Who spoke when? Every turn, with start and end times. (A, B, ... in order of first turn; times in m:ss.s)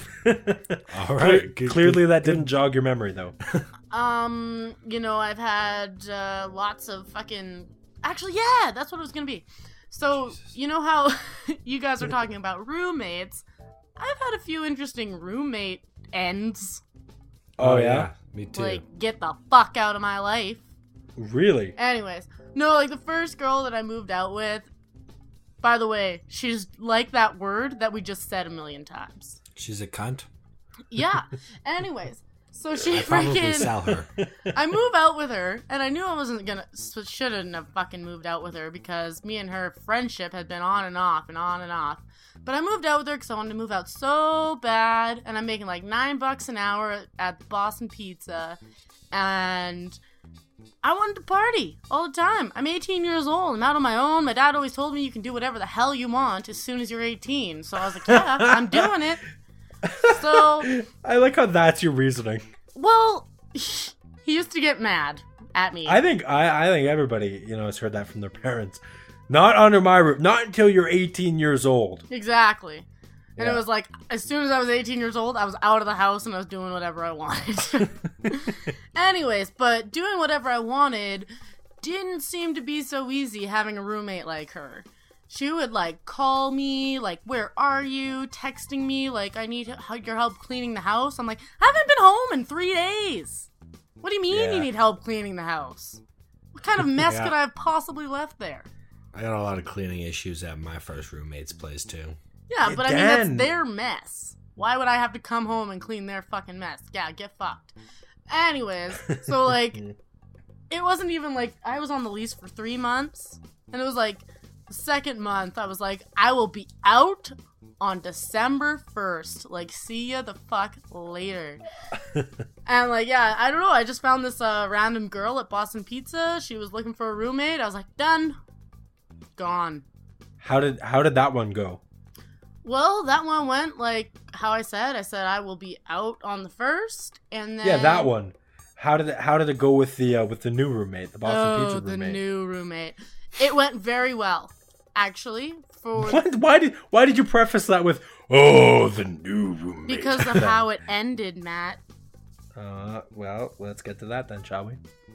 0:00.1-0:03.4 A
0:00.9-0:02.5 B
0:03.9-0:13.4 C
0:14.0-0:16.8 C
0:17.6-0:18.1 A
0:17.6-0:18.8 B
0:18.6-0:20.6 C
0:21.2-0:21.8 A
0:21.8-0:24.7 C
0:25.6-0:29.4 C
0:29.6-0:30.3 B
0:30.9-0:34.0 C
0:32.9-0:34.1 B
0:34.5-0:48.6 C
0:49.1-0:50.0 C
0:50.8-0:59.2 C
0:58.1-0:58.9 A
0:59.8-1:02.5 A
1:00.1-1:00.7 C
1:02.8-1:06.0 C
1:05.9-1:12.0 A
1:12.1-1:12.9 C
1:13.4-1:13.6 A
1:13.4-1:21.3 C
1:21.8-1:33.5 C
1:34.0-1:36.0 C
1:34.3-1:34.7 A
1:36.6-1:38.7 C
1:37.1-1:37.4 B
1:39.1-1:42.2 B
1:42.5-1:47.8 C
1:42.6-1:43.5 A
1:48.3-1:49.8 C
1:49.1-1:49.9 A
1:50.7-2:01.6 C
2:02.7-2:08.4 C
2:09.4-2:09.8 C
2:10.4-2:11.8 A
2:12.6-2:18.1 C
2:17.6-2:22.2 A
2:21.2-2:26.2 C
2:26.0-2:30.6 A
2:29.9-2:31.8 C
2:32.6-2:34.8 A